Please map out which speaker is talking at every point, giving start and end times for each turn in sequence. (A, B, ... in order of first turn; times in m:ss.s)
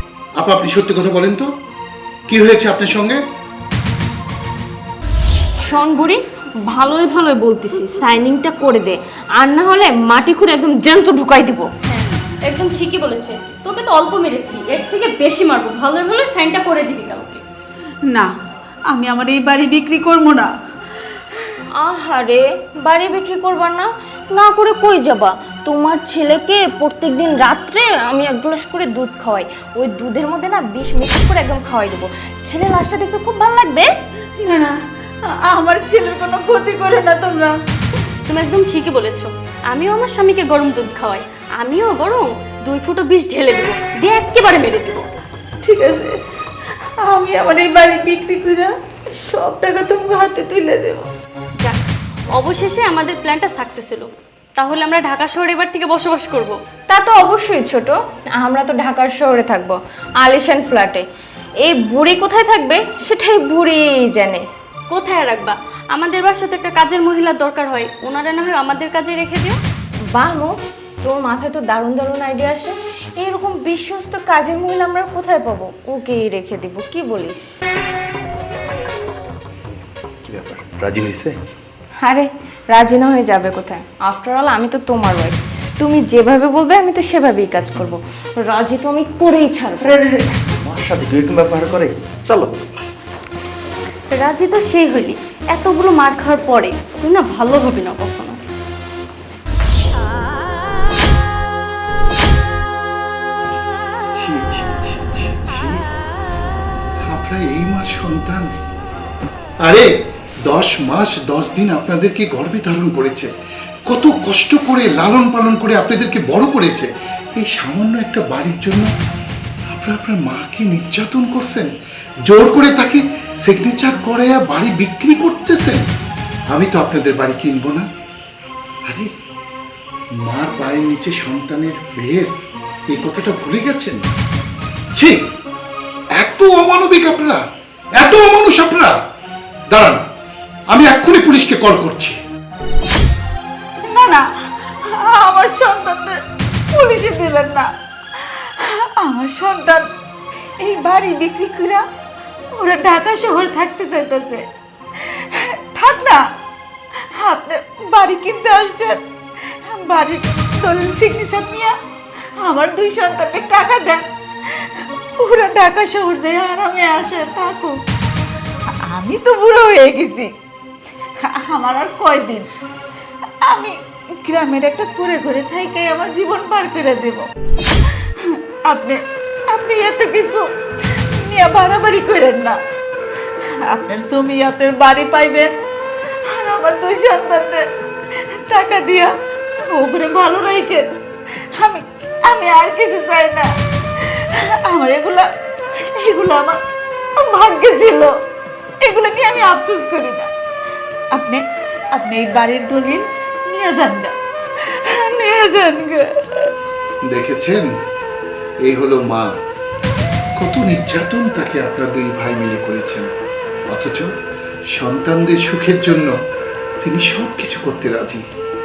0:00.4-0:01.5 A
0:02.3-0:03.2 A
0:05.6-0:11.7 B
0:11.9-0:17.4 C
0:18.9-0:20.5 D
0:21.8-0:33.9 B
0:34.4-0:34.8 D
0:35.3-0:37.5 D
0:38.3-0:45.1 C
0:45.6-0:46.1 D
0:47.0-0:48.7 D
0:49.3-0:51.1 D
0:52.3-0:56.6 C
0:56.9-1:01.0 B
1:01.6-1:04.4 B
1:04.9-1:09.6 C
1:10.2-1:17.5 B
1:20.2-1:21.4 E
1:22.0-1:29.9 B
1:29.8-1:30.1 E
1:30.6-1:32.5 E
1:34.1-1:38.4 C
1:44.2-1:45.7 A
1:47.0-1:48.6 A
1:50.5-1:53.3 A
1:53.9-1:58.9 A
1:59.7-2:01.7 A
2:02.3-2:05.8 A
2:06.5-2:07.9 A
2:10.3-2:12.4 A
2:12.9-2:14.0 A
2:16.2-2:17.4 A
2:18.0-2:19.0 A
2:19.7-2:20.0 A
2:20.7-2:22.2 A
2:23.9-2:24.2 D
2:25.0-2:26.2 D
2:26.8-2:27.7 D
2:29.0-2:29.9 D
2:30.6-2:31.8 D
2:32.6-2:34.4 D
2:35.7-2:36.2 D
2:37.2-2:39.0 D
2:39.7-2:41.7 D
2:42.4-2:44.1 D
2:45.2-2:47.7 D
2:48.9-2:50.3 D
2:51.2-2:52.5 D
2:53.5-2:53.7 D
2:54.2-2:57.3 D
2:58.7-2:59.0 D
2:59.5-3:00.5 D
3:01.2-3:02.6 D
3:03.7-3:05.5 D
3:06.3-3:07.6 D
3:08.5-3:09.1 D
3:09.7-3:10.9 D
3:11.6-3:13.5 D
3:14.7-3:15.3 D
3:16.0-3:16.6 D
3:17.2-3:18.1 D
3:18.8-3:20.3 D
3:21.1-3:21.4 D
3:22.0-3:24.1 D
3:25.0-3:26.0 D
3:27.1-3:27.7 A
3:28.7-3:29.3 A
3:30.4-3:33.1 A
3:33.7-3:34.1 A
3:34.8-3:36.1 A
3:36.8-3:38.2 A